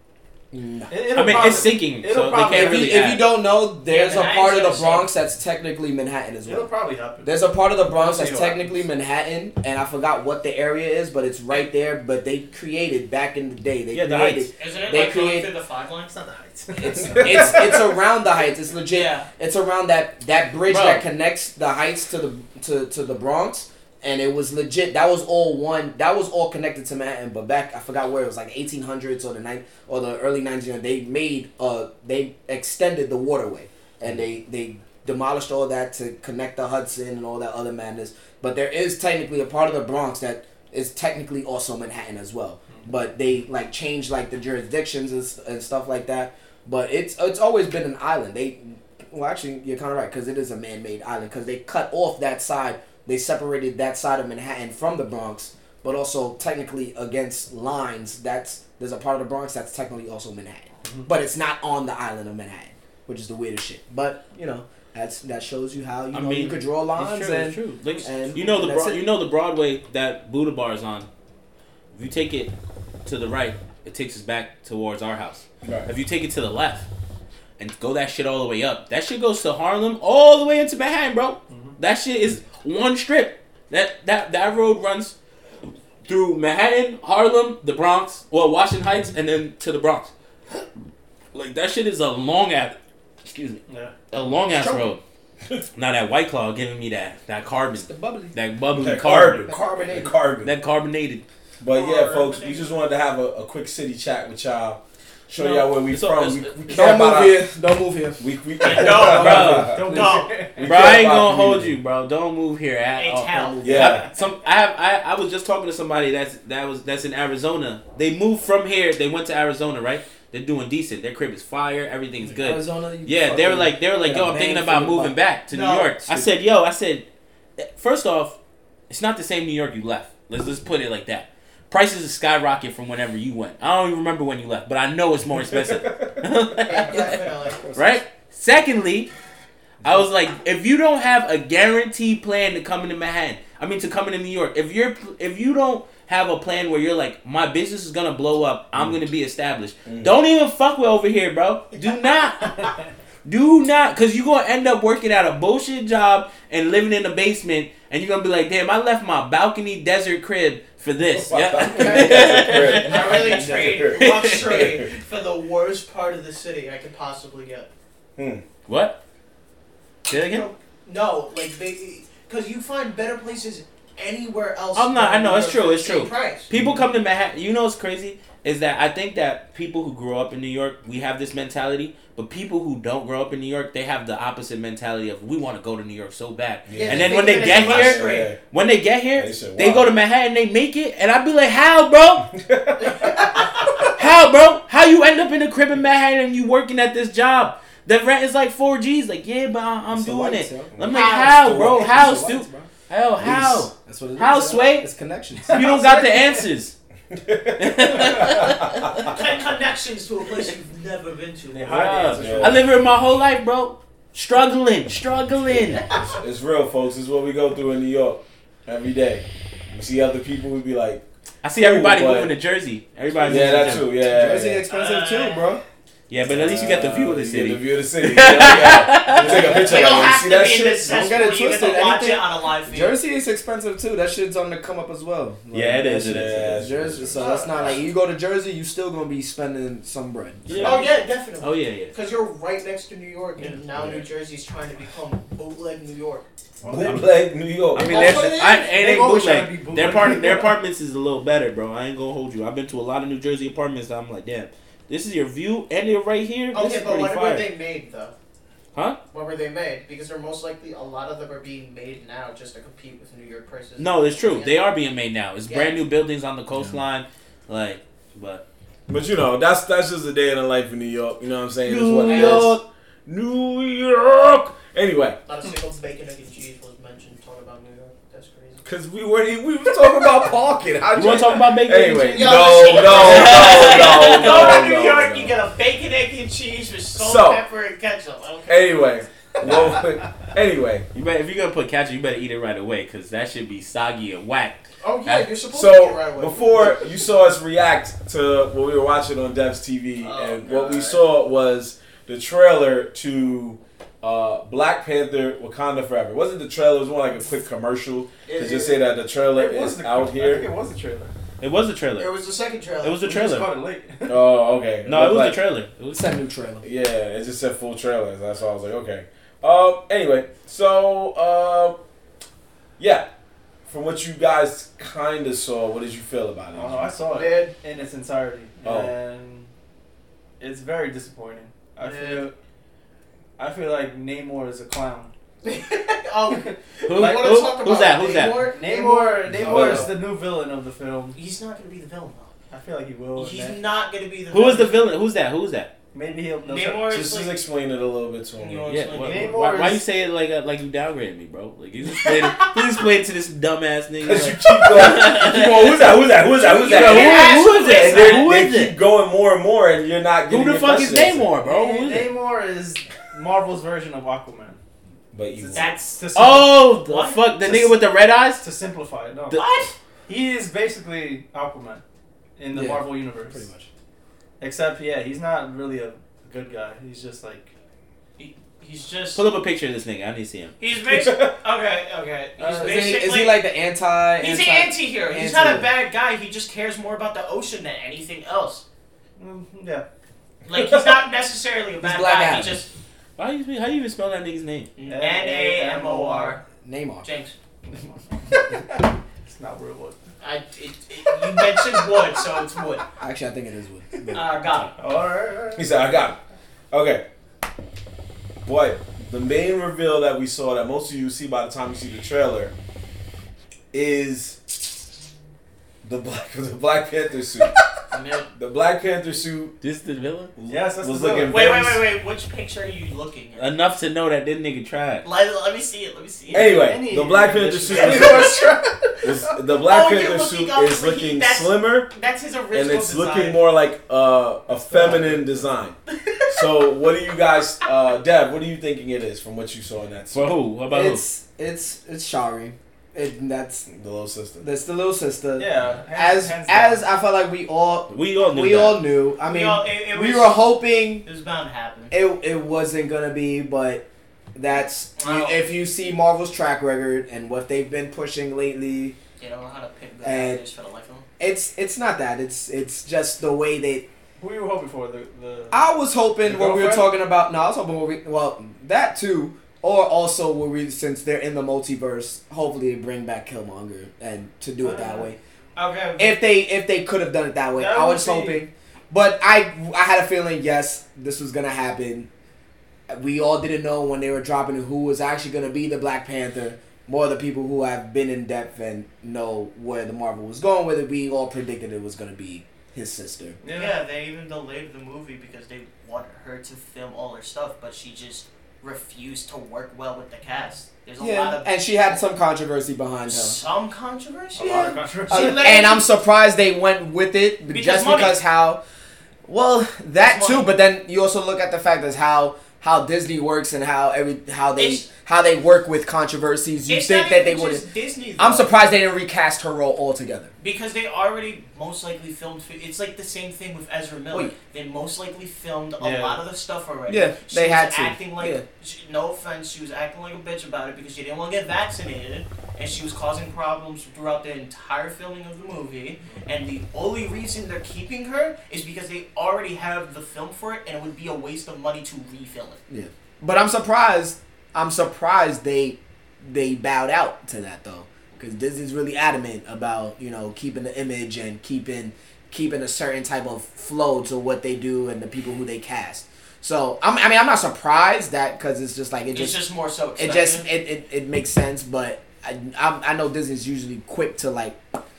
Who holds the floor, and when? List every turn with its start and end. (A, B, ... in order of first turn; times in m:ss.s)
0:00.5-0:01.2 A
0:00.9-0:03.0 B
0:01.1-0:03.3 C
0:02.4-0:06.7 A
0:03.9-0:05.1 D
0:06.4-0:07.3 B
0:07.2-0:15.5 A
0:07.9-0:08.8 B
0:13.9-0:14.5 C
0:14.6-0:16.2 D
0:16.1-0:17.7 B
0:16.8-1:09.0 A
0:18.9-0:19.3 D
0:20.7-0:21.0 C
1:06.1-1:11.1 C
1:11.9-1:12.5 C
1:13.0-1:16.9 C
1:15.6-1:15.9 E
1:17.6-1:25.2 C
1:21.5-1:21.8 B
1:26.0-1:30.1 C
1:31.3-1:35.0 C
1:33.7-1:33.9 B
1:34.5-1:35.0 A
1:35.8-1:39.5 C
1:37.8-1:38.4 A
1:38.7-1:40.5 E
1:39.4-1:40.2 A
1:40.4-1:41.2 C
1:41.6-1:47.4 E
1:41.7-1:42.8 D
1:45.4-1:46.5 C
1:46.7-1:50.3 A
1:48.2-1:49.8 E
1:48.6-1:50.4 D
1:49.0-1:49.8 C
1:49.5-1:50.7 B
1:50.6-1:51.8 E
1:50.6-2:07.1 C
1:53.0-1:53.9 D
1:53.3-1:54.1 A
1:53.6-1:54.1 E
2:02.3-2:05.2 A
2:05.5-2:05.9 D
2:07.6-2:08.4 C
2:08.9-2:17.2 C
2:15.4-2:15.8 E
2:16.6-2:17.7 D
2:17.6-2:18.0 A
2:17.8-2:19.1 C
2:19.8-2:32.7 C
2:29.9-2:30.2 E
2:33.2-2:44.8 C
2:41.1-2:44.9 E
2:41.6-2:43.9 A
2:42.8-2:47.7 D
2:48.2-2:48.4 E
2:48.7-2:49.0 C
2:50.1-2:50.5 C
2:50.1-2:56.5 D
2:54.8-3:12.3 C
3:06.7-3:08.4 E
3:06.8-3:08.3 D
3:09.2-3:09.9 E
3:12.3-3:13.0 E
3:12.8-3:13.9 D
3:13.9-3:24.9 C
3:19.9-3:20.8 A
3:20.8-3:22.0 E
3:20.9-3:21.4 D
3:21.4-3:22.7 A
3:23.2-3:23.7 E
3:23.2-3:25.6 A
3:25.5-3:26.7 C
3:25.5-3:26.1 D
3:27.1-3:28.9 E
3:27.6-3:29.1 C
3:29.0-3:32.1 D
3:31.5-3:32.6 B
3:31.6-3:35.9 C
3:32.1-3:32.6 E
3:36.0-3:41.0 E
3:41.4-3:43.9 C
3:41.6-3:42.3 E
3:43.2-3:43.5 D
3:43.2-3:44.6 E
3:44.0-3:45.6 A
3:44.7-3:45.6 D
3:46.1-3:49.6 C
3:46.2-3:50.9 E
3:49.2-3:49.9 A
3:49.3-3:53.0 D
3:50.9-4:00.6 A
3:55.5-3:56.6 C
3:56.0-3:57.8 E
3:57.1-3:57.9 D
4:00.5-4:02.0 C
4:00.5-4:00.8 E
4:00.6-4:06.3 D
4:03.7-4:04.1 E
4:06.6-4:07.0 B
4:06.7-4:08.2 E
4:06.8-4:07.1 C
4:07.7-4:17.5 C
4:07.8-4:08.8 D
4:08.7-4:10.6 B
4:16.5-4:18.1 D
4:18.7-4:19.0 C
4:19.1-4:24.6 D
4:23.8-4:28.4 C
4:25.5-4:25.8 D
4:28.9-4:35.2 E
4:31.6-4:32.6 C
4:32.0-4:32.6 D
4:35.3-4:38.6 D
4:38.6-4:45.4 E
4:40.9-4:44.7 C
4:42.1-4:49.8 D
4:47.0-4:47.4 E
4:48.5-4:50.9 E
4:50.9-4:55.3 C
4:54.8-4:57.0 D
4:55.5-5:10.5 E
5:00.0-5:01.0 D
5:08.3-5:08.8 D
5:09.3-5:11.2 B
5:11.4-5:12.1 C
5:12.0-5:13.0 D
5:12.8-5:13.5 C
5:13.0-5:14.2 B
5:14.1-5:15.4 E
5:14.8-5:16.1 C
5:15.9-5:16.7 A
5:16.6-5:21.8 E
5:22.8-5:23.1 E
5:23.7-5:26.9 E
5:26.5-5:29.5 B
5:27.1-5:27.5 D
5:28.6-5:29.0 E
5:30.4-5:32.3 B
5:31.8-5:32.3 D
5:33.4-5:35.1 B
5:35.4-5:39.9 D
5:36.4-5:37.2 B
5:36.8-5:38.4 C
5:38.3-5:41.2 B
5:39.3-5:39.9 E
5:41.1-5:42.3 D
5:42.5-5:43.6 B
5:43.2-5:45.0 D
5:44.3-5:45.7 C
5:45.9-5:47.0 B
5:46.4-5:47.4 D
5:46.9-5:48.7 E
5:48.4-5:49.4 D
5:48.7-5:58.8 C
5:49.0-5:49.8 B
5:52.0-5:52.5 D
5:54.0-6:01.3 E
5:56.5-5:58.3 D
6:00.3-6:02.1 C
6:01.4-6:04.6 B
6:05.1-6:05.7 E
6:05.4-6:06.7 B
6:05.5-6:07.3 D
6:06.2-6:08.4 C
6:07.5-6:07.7 B
6:08.4-6:09.4 B
6:09.4-6:09.7 D
6:10.1-6:11.8 B
6:12.4-6:13.5 B
6:12.5-6:13.7 A
6:14.4-6:17.5 B
6:18.2-6:19.2 D
6:19.1-6:20.6 C
6:20.6-6:23.4 D
6:20.9-6:21.4 E
6:22.4-6:23.0 B
6:22.6-6:25.7 A
6:24.2-6:28.6 D
6:29.2-6:29.8 B
6:30.4-6:32.7 D
6:30.5-6:30.9 E
6:31.8-6:32.6 A
6:33.2-6:34.7 C
6:34.8-6:36.4 D
6:34.9-6:36.4 B
6:36.6-6:37.1 A
6:37.0-6:37.4 D
6:37.6-6:40.0 B
6:40.2-6:42.9 D
6:41.4-6:41.8 B
6:43.0-6:44.2 A
6:44.1-6:44.7 D
6:44.8-6:45.8 B
6:45.6-6:46.2 E
6:46.7-6:47.0 E
6:48.4-6:52.5 E
6:53.7-6:54.4 E
6:55.8-6:57.6 E
6:57.9-6:58.3 D
6:58.4-6:59.6 E
6:59.6-7:00.3 C
7:00.4-7:01.8 E
7:00.5-7:01.4 B
7:01.3-7:03.5 D
7:03.4-7:05.1 C
7:05.0-7:06.7 D
7:06.3-7:08.4 E
7:06.3-7:09.1 B
7:07.7-7:08.8 D
7:09.0-7:11.9 E
7:09.6-7:13.4 D
7:12.5-7:15.8 E
7:14.5-7:15.2 B
7:15.9-7:16.4 D
7:16.3-7:20.3 E
7:20.1-7:21.0 C
7:20.7-7:23.7 A
7:23.7-7:24.5 E
7:24.4-7:31.1 A
7:25.4-7:26.9 B
7:27.9-7:28.8 C
7:29.2-7:31.9 D
7:31.9-7:39.0 A
7:35.0-7:35.4 D
7:39.2-7:41.1 D
7:40.0-7:40.4 A
7:41.2-7:43.9 A
7:44.2-7:45.7 B
7:45.5-7:55.2 A
7:46.2-7:46.9 B
7:54.6-7:55.1 B
7:55.6-7:56.2 D
7:56.0-8:02.1 A
7:57.6-7:58.4 B
8:02.9-8:13.4 A
8:13.4-8:13.8 B
8:13.5-8:22.0 D
8:21.0-8:23.4 A
8:23.1-8:25.9 D
8:24.4-8:25.5 B
8:25.1-8:28.6 A
8:27.5-8:28.2 D
8:29.2-8:37.6 A
8:30.0-8:30.5 D
8:34.6-8:34.9 D
8:36.7-8:38.5 D
8:38.2-8:40.3 A
8:40.4-9:02.6 D
8:45.8-8:46.2 B
8:46.9-8:48.4 A
9:02.7-9:19.4 A
9:19.1-9:20.5 D
9:20.0-9:24.6 A